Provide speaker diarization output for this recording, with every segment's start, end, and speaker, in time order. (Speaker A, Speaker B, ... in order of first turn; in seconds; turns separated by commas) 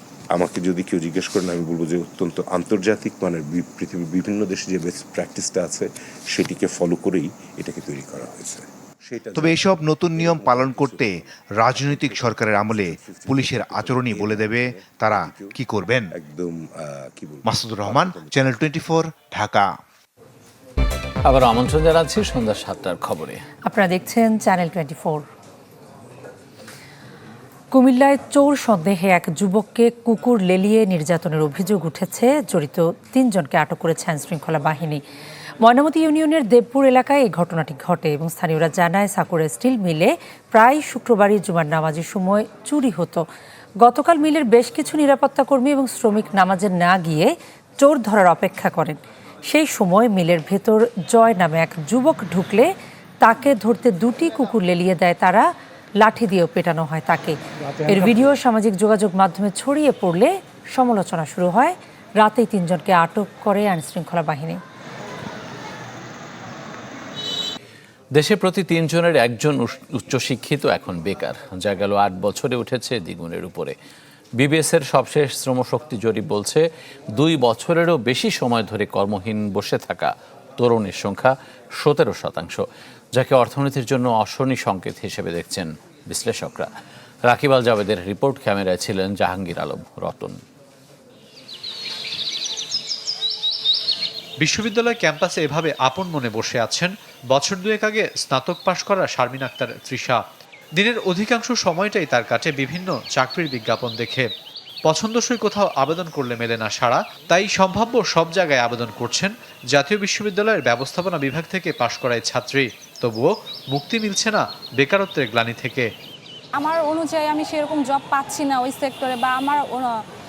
Speaker A: 0.3-15.5, Speaker B: 9.4-16.1, Speaker A: 16.2-18.4, Speaker B: 17.4-19.7, Speaker C: 21.3-23.4, Speaker D: 23.7-25.3, Speaker D: 27.7-35.0, Speaker D: 35.6-43.2, Speaker D: 43.8-55.5, Speaker D: 56.0-64.6, Speaker C: 68.2-73.7, Speaker C: 74.4-76.6, Speaker C: 77.2-82.6, Speaker C: 83.2-86.7, Speaker C: 87.3-90.4, Speaker E: 94.4-100.2, Speaker E: 100.8-104.3, Speaker E: 104.9-115.9, Speaker F: 116.6-120.0